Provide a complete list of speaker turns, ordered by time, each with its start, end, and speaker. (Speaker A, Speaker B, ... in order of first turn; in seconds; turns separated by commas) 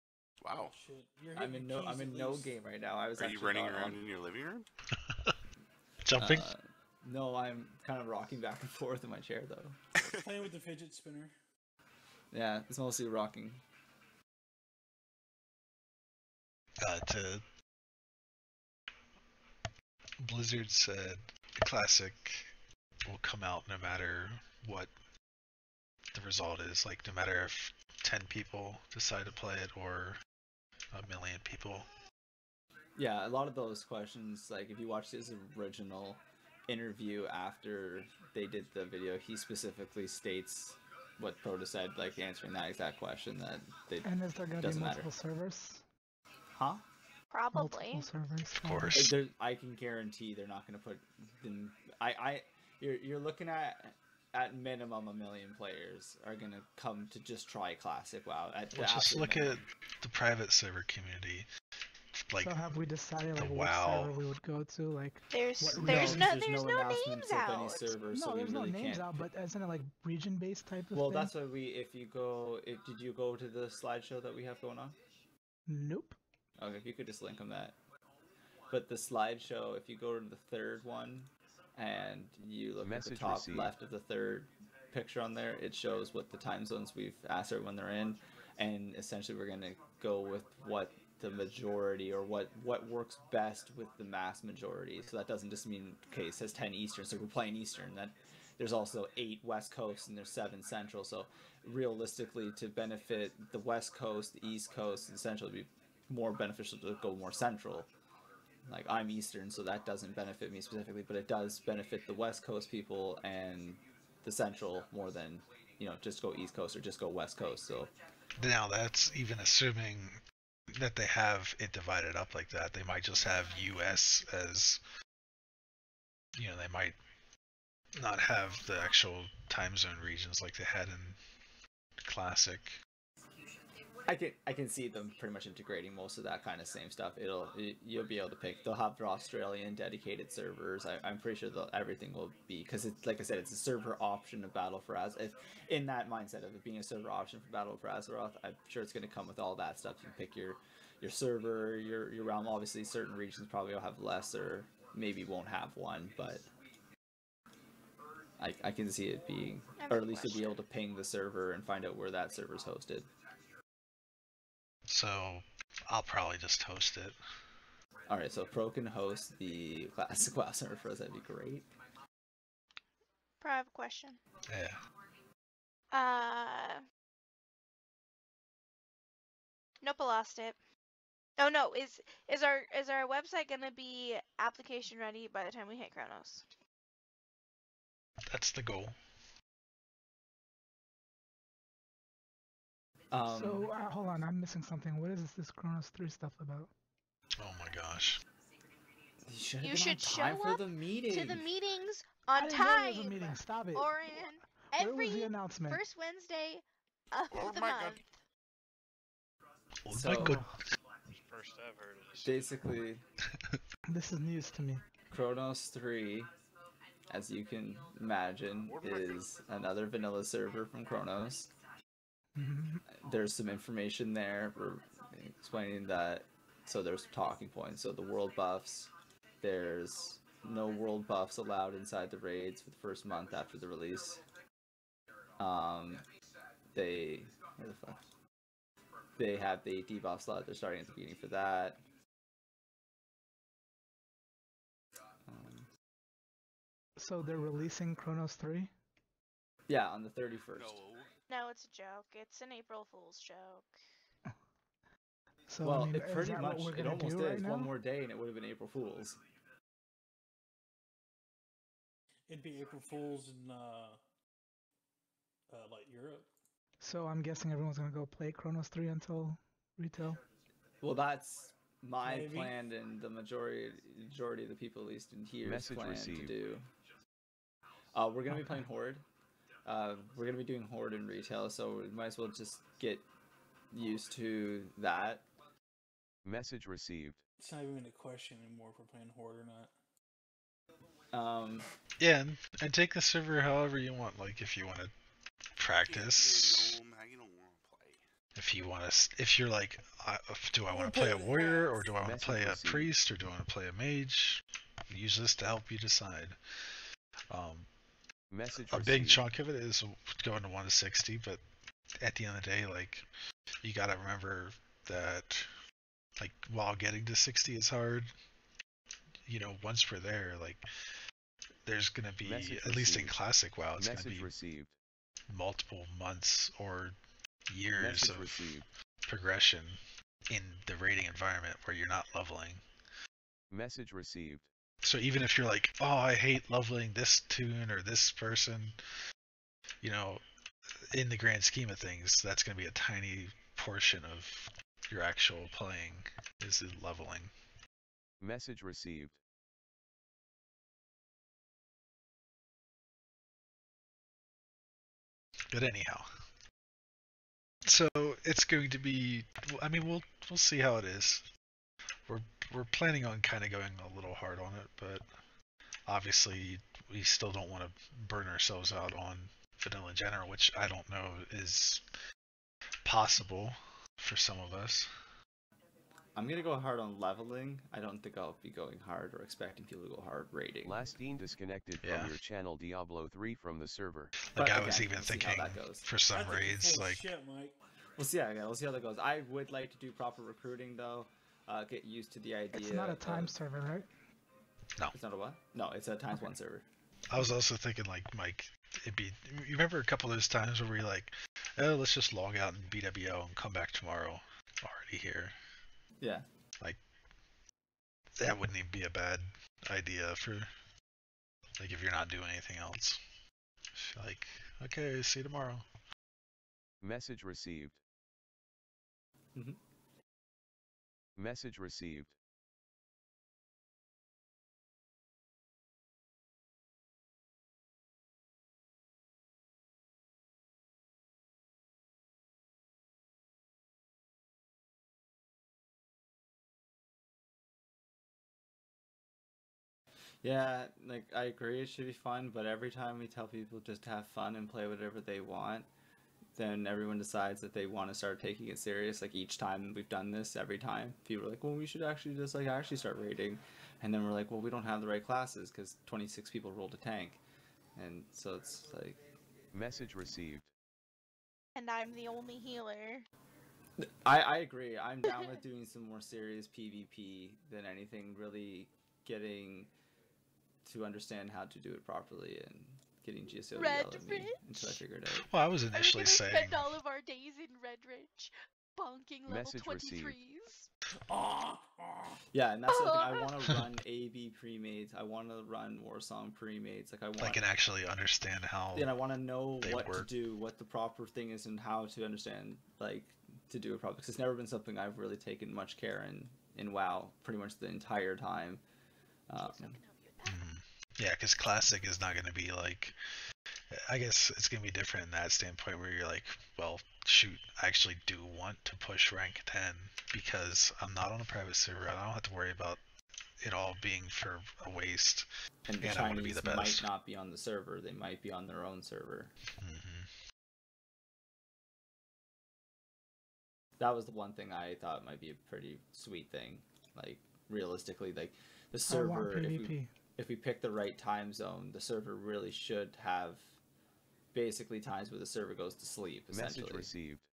Speaker A: 0.4-0.7, Speaker B: 0.6-2.5, Speaker C: 1.3-4.0, Speaker A: 3.1-4.7, Speaker D: 4.9-5.4, Speaker D: 6.0-6.5, Speaker C: 6.2-9.8, Speaker A: 10.0-10.3, Speaker B: 10.2-11.3, Speaker C: 12.3-13.6, Speaker D: 16.8-17.4, Speaker D: 20.2-22.5, Speaker D: 23.0-24.9, Speaker D: 26.1-30.2, Speaker D: 30.9-31.9, Speaker C: 33.0-45.1, Speaker E: 44.0-45.9, Speaker C: 46.5-46.8, Speaker F: 47.3-48.1, Speaker E: 47.5-49.1, Speaker D: 48.5-49.1, Speaker C: 48.9-59.6, Speaker D: 58.7-61.5, Speaker D: 62.1-62.6, Speaker E: 62.4-66.3, Speaker D: 63.3-64.3, Speaker F: 65.3-68.0, Speaker C: 65.7-69.3, Speaker D: 65.8-66.3, Speaker E: 68.1-71.3, Speaker C: 70.9-75.0, Speaker E: 75.7-76.2, Speaker C: 76.6-77.8, Speaker C: 78.7-107.9, Speaker G: 82.8-83.7, Speaker C: 108.6-117.9, Speaker D: 118.4-120.2, Speaker D: 120.7-124.8, Speaker D: 126.3-127.0, Speaker D: 127.9-131.2, Speaker D: 132.0-132.8, Speaker C: 134.1-156.5, Speaker C: 158.4-163.1, Speaker F: 159.8-160.6, Speaker D: 164.9-167.2, Speaker C: 168.1-171.7, Speaker F: 173.4-174.2, Speaker D: 174.5-174.8, Speaker F: 175.9-176.8, Speaker F: 179.8-180.6, Speaker F: 181.4-186.4, Speaker D: 188.3-189.0, Speaker C: 193.1-193.7, Speaker E: 193.3-196.7, Speaker D: 197.4-198.2, Speaker C: 199.2-201.5, Speaker F: 199.6-208.2, Speaker E: 202.3-205.8, Speaker A: 207.3-208.0, Speaker D: 209.8-210.6, Speaker C: 209.9-210.4, Speaker H: 211.1-212.7, Speaker C: 212.2-213.0, Speaker D: 213.3-213.6, Speaker E: 213.9-214.8, Speaker C: 215.1-216.3, Speaker C: 217.1-221.5, Speaker H: 218.7-219.2, Speaker E: 222.3-222.8, Speaker C: 222.9-234.2, Speaker C: 235.4-236.1, Speaker C: 236.7-238.1, Speaker C: 239.2-241.8, Speaker C: 245.3-245.7, Speaker E: 247.0-248.7, Speaker C: 249.7-250.8, Speaker A: 250.5-251.1, Speaker F: 251.3-253.8, Speaker E: 255.5-257.7, Speaker C: 255.6-259.2, Speaker B: 262.3-264.0, Speaker B: 265.5-266.3, Speaker E: 266.8-270.2, Speaker C: 270.8-276.7, Speaker B: 272.0-272.6, Speaker G: 275.4-276.4, Speaker C: 277.9-279.0, Speaker E: 278.3-278.6, Speaker C: 279.6-283.1, Speaker C: 283.7-285.2, Speaker G: 286.2-287.2, Speaker B: 287.4-289.7, Speaker C: 291.1-291.7, Speaker D: 292.0-294.9, Speaker D: 295.6-296.8, Speaker A: 295.6-298.1, Speaker D: 298.3-306.4, Speaker B: 300.7-301.8, Speaker G: 302.0-302.9, Speaker D: 307.3-307.7, Speaker G: 308.3-309.2, Speaker D: 308.7-311.4, Speaker D: 312.0-313.1, Speaker D: 313.6-315.5, Speaker D: 316.2-318.1, Speaker D: 319.2-320.6, Speaker D: 321.6-324.3, Speaker G: 322.2-323.1, Speaker G: 323.8-324.7, Speaker D: 325.3-326.9, Speaker D: 327.5-332.6, Speaker G: 327.8-328.6, Speaker G: 333.5-334.4, Speaker D: 334.8-338.8, Speaker D: 339.8-340.2, Speaker D: 340.9-347.3, Speaker G: 348.2-349.1, Speaker D: 355.5-356.1, Speaker D: 357.6-361.3, Speaker D: 362.1-365.1, Speaker D: 365.9-371.9, Speaker D: 372.8-374.9, Speaker C: 376.1-380.8, Speaker G: 380.6-384.2, Speaker D: 381.8-382.1, Speaker D: 384.3-387.0, Speaker C: 384.3-385.8, Speaker B: 386.1-387.5, Speaker C: 388.0-393.4, Speaker E: 392.5-393.9, Speaker C: 394.9-396.6, Speaker D: 397.1-405.4, Speaker C: 406.0-406.2, Speaker D: 408.2-410.5, Speaker D: 411.6-413.0, Speaker D: 413.7-415.7, Speaker G: 416.8-417.8, Speaker G: 421.2-422.1, Speaker C: 440.2-445.7, Speaker C: 446.4-457.2, Speaker C: 457.8-459.0, Speaker G: 459.5-460.5, Speaker F: 461.6-463.1, Speaker C: 463.8-469.7, Speaker C: 470.6-475.3, Speaker F: 473.5-474.4, Speaker D: 475.2-476.7, Speaker F: 475.7-480.7, Speaker G: 479.3-480.1, Speaker B: 481.1-482.2, Speaker C: 482.3-487.4, Speaker F: 482.7-483.3, Speaker D: 487.2-488.9, Speaker C: 488.7-498.6, Speaker D: 489.6-490.1, Speaker C: 499.3-499.8, Speaker F: 499.4-500.4, Speaker D: 500.2-503.0, Speaker D: 503.7-512.8, Speaker D: 513.4-515.3, Speaker C: 515.7-519.3, Speaker D: 515.8-516.9, Speaker D: 519.5-520.1, Speaker C: 523.8-533.5, Speaker E: 528.9-529.9, Speaker C: 534.3-536.9, Speaker G: 536.3-537.2